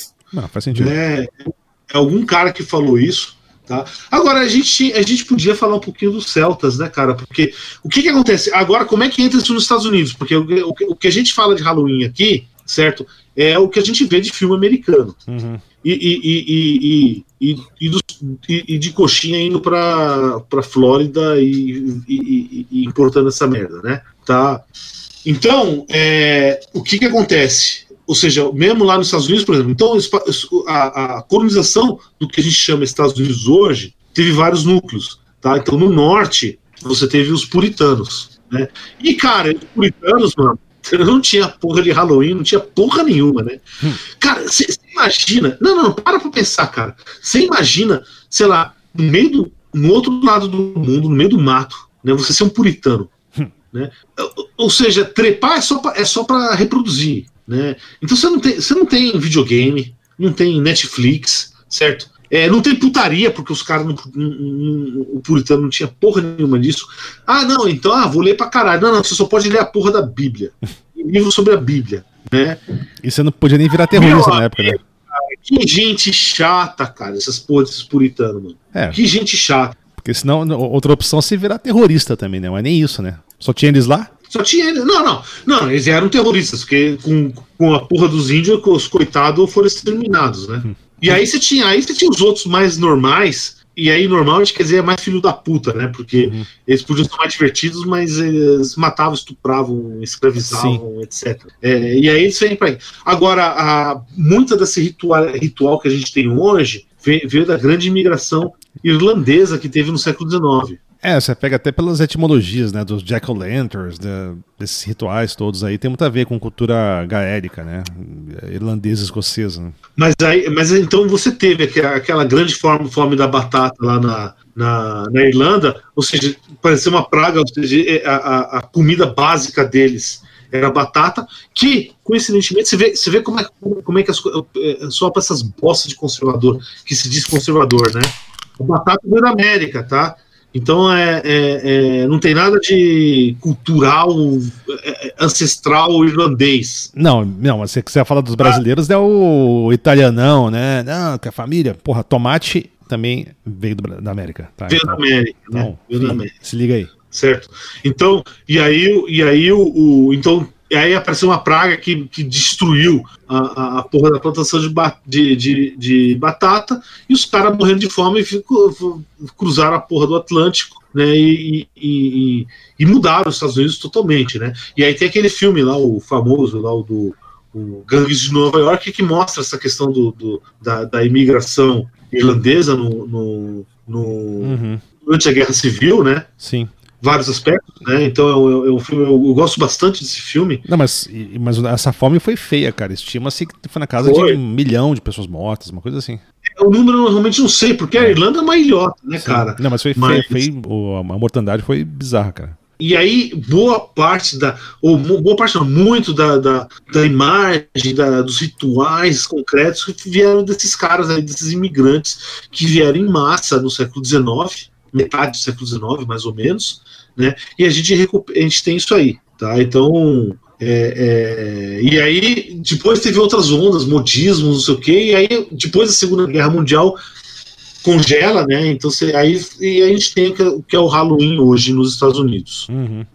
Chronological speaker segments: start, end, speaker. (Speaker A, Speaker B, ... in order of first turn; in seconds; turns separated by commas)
Speaker A: 0.3-0.9, Speaker B: 0.8-15.2, Speaker A: 15.3-15.6, Speaker B: 15.8-24.6, Speaker B: 25.2-53.1, Speaker B: 53.7-72.6, Speaker A: 73.0-74.8, Speaker B: 73.9-79.8, Speaker A: 78.7-79.0, Speaker A: 80.0-84.1, Speaker B: 84.3-110.8, Speaker A: 96.2-96.5, Speaker A: 100.5-100.8, Speaker A: 111.0-119.8, Speaker B: 120.0-146.9, Speaker A: 146.9-155.0, Speaker B: 154.7-156.3, Speaker A: 155.5-156.9, Speaker B: 157.1-186.3, Speaker A: 184.4-184.8, Speaker A: 186.4-186.7, Speaker B: 187.0-190.6, Speaker A: 190.7-196.2, Speaker B: 194.0-194.4, Speaker B: 196.6-200.5, Speaker A: 197.9-198.2, Speaker A: 199.2-202.6, Speaker B: 202.8-227.0, Speaker B: 227.8-232.7, Speaker A: 232.7-233.1